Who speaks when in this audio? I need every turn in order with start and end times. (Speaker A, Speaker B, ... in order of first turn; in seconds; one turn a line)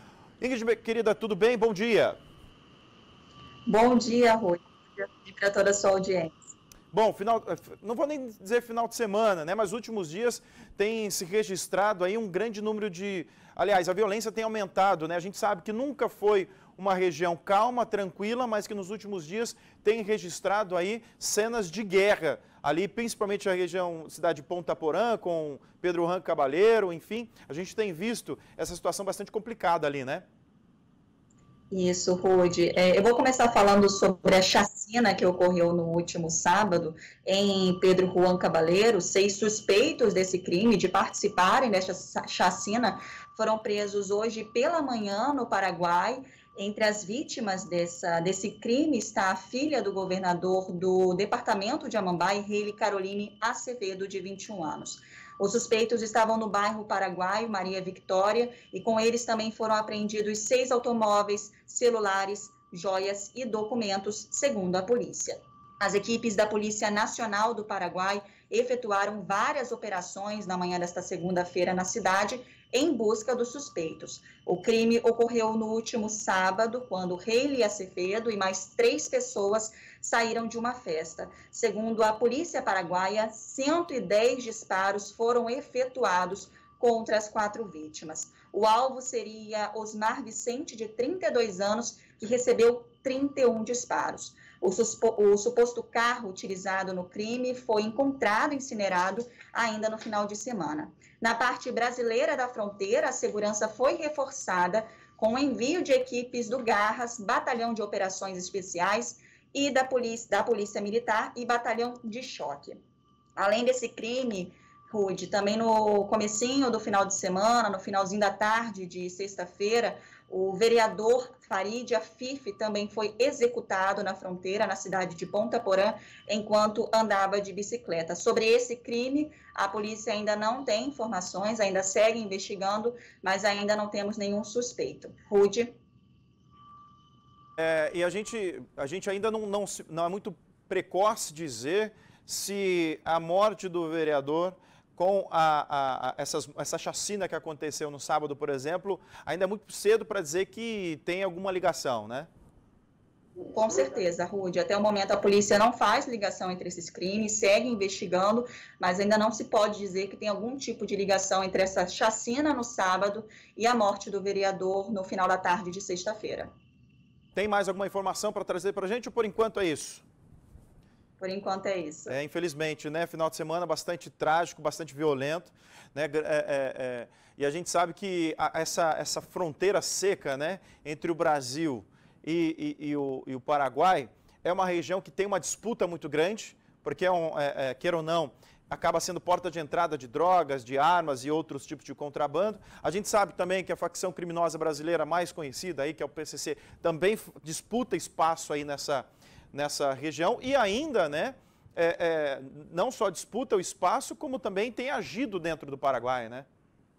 Speaker A: 0.4-2.2
Speaker B: 3.7-6.4
Speaker A: 6.9-30.2
Speaker B: 31.7-112.8
Speaker B: 113.4-135.8
Speaker A: 137.6-152.3
Speaker B: 153.5-166.5
Speaker A: 167.3-170.1
Speaker B: 171.2-172.1
Speaker A: 172.1-206.5